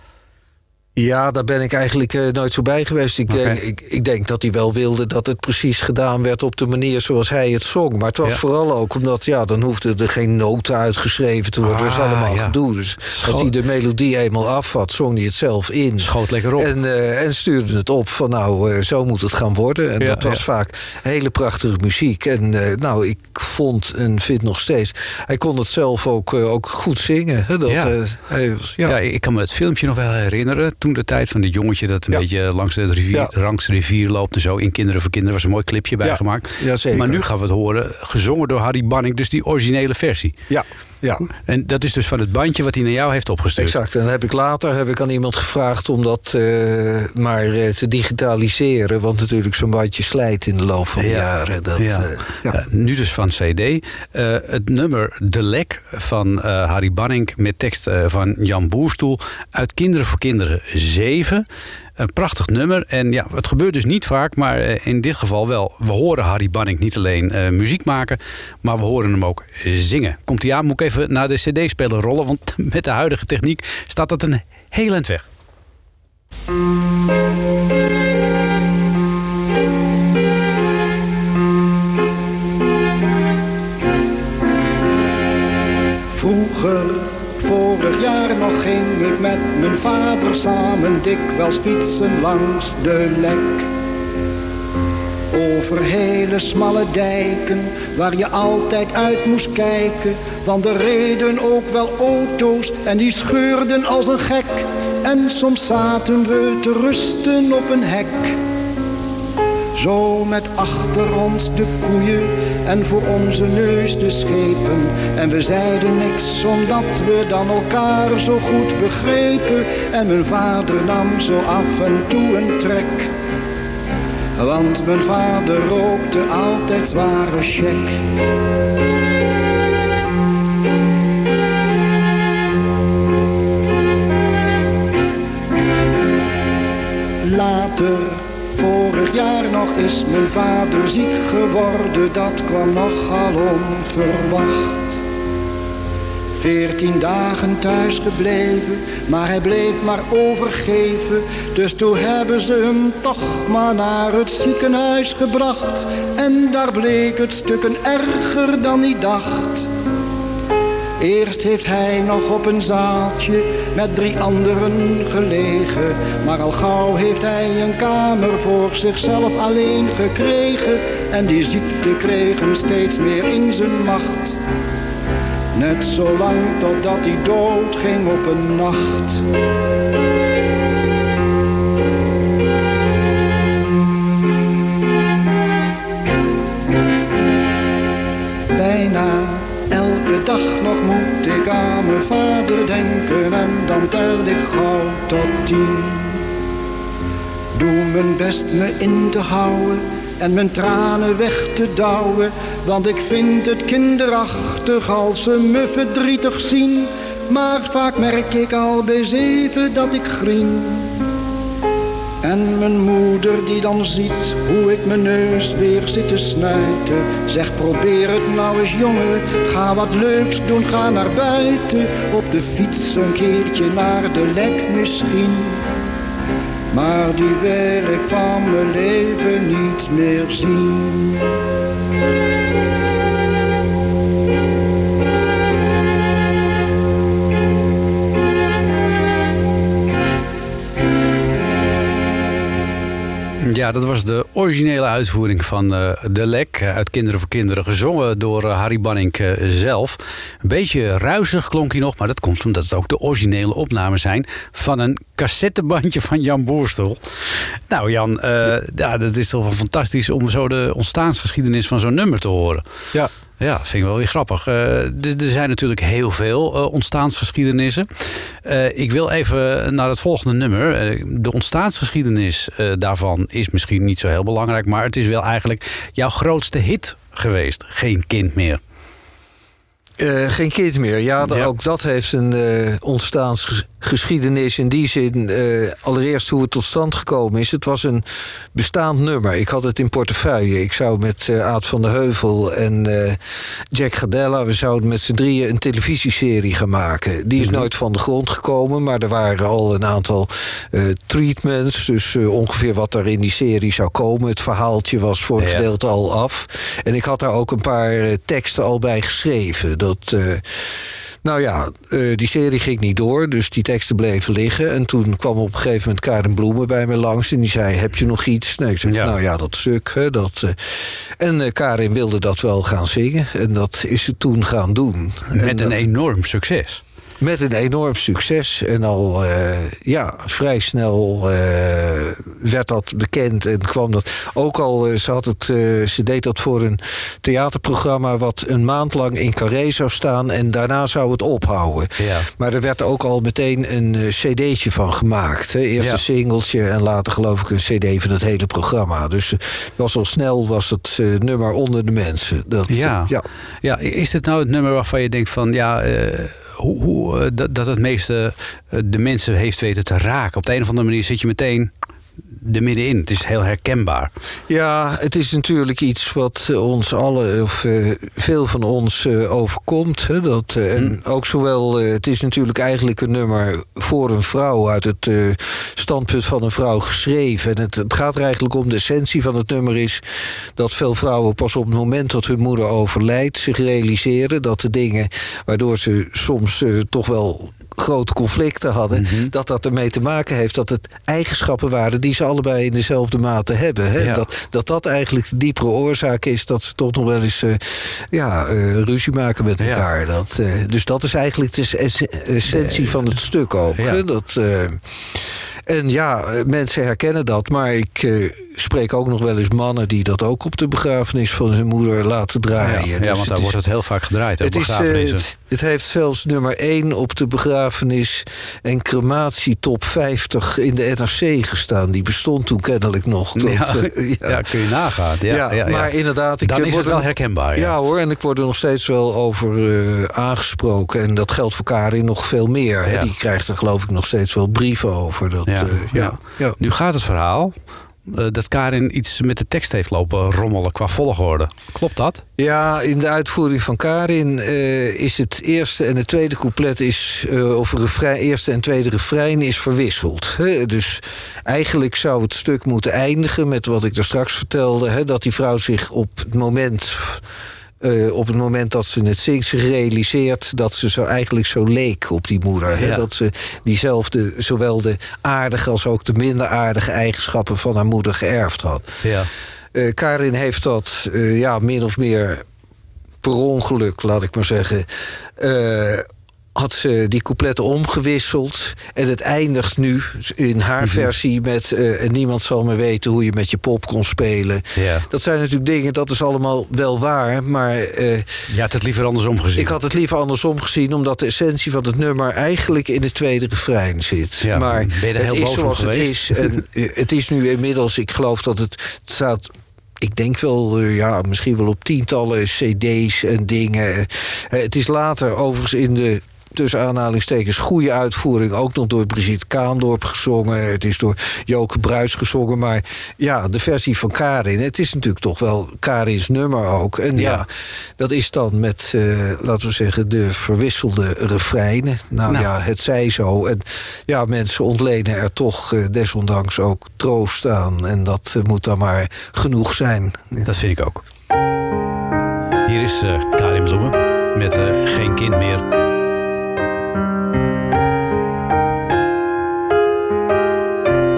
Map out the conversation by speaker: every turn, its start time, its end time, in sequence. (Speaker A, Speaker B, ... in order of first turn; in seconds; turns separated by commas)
Speaker A: 0.9-28.9, Speaker B: 3.3-3.6, Speaker B: 11.6-12.5, Speaker B: 13.1-13.5, Speaker B: 16.0-16.7, Speaker B: 20.0-20.4, Speaker B: 27.7-27.9, Speaker B: 28.9-40.3, Speaker A: 36.0-37.2, Speaker A: 40.5-41.2, Speaker B: 41.5-43.7, Speaker A: 43.6-52.6, Speaker B: 51.0-61.4, Speaker B: 62.0-75.2, Speaker C: 86.1-93.7, Speaker C: 95.3-108.3, Speaker C: 109.8-123.1, Speaker C: 124.4-128.0, Speaker C: 137.2-145.0, Speaker C: 146.4-159.7, Speaker C: 161.0-174.4, Speaker C: 175.5-179.2, Speaker C: 188.5-196.2, Speaker C: 197.6-210.9, Speaker C: 212.2-225.6, Speaker C: 226.7-231.2, Speaker B: 243.4-262.6, Speaker B: 263.4-278.6, Speaker A: 280.0-293.2, Speaker B: 281.2-281.5, Speaker A: 293.7-310.4, Speaker B: 297.4-297.7, Speaker B: 305.4-305.6, Speaker A: 311.2-320.6, Speaker B: 318.8-319.1, Speaker A: 321.2-325.8, Speaker B: 325.3-326.8, Speaker A: 327.2-353.2, Speaker B: 342.0-342.3, Speaker B: 352.7-361.7, Speaker B: 362.4-364.1, Speaker A: 364.5-380.0, Speaker A: 380.6-413.6, Speaker B: 388.9-389.3, Speaker B: 399.6-399.8, Speaker B: 402.5-403.1, Speaker B: 403.7-404.0, Speaker B: 412.6-415.2, Speaker A: 414.4-424.4, Speaker B: 423.3-427.7, Speaker A: 425.3-436.6, Speaker B: 435.5-437.5, Speaker B: 438.1-442.2, Speaker A: 442.4-457.2, Speaker A: 457.8-468.9, Speaker B: 462.7-463.0, Speaker B: 469.0-469.3, Speaker A: 469.7-472.4, Speaker A: 473.2-488.3, Speaker B: 480.8-481.1, Speaker B: 484.8-485.1, Speaker B: 488.5-489.8, Speaker A: 489.6-530.5, Speaker B: 494.4-496.6, Speaker B: 517.1-517.4, Speaker B: 530.5-531.0, Speaker B: 532.6-535.6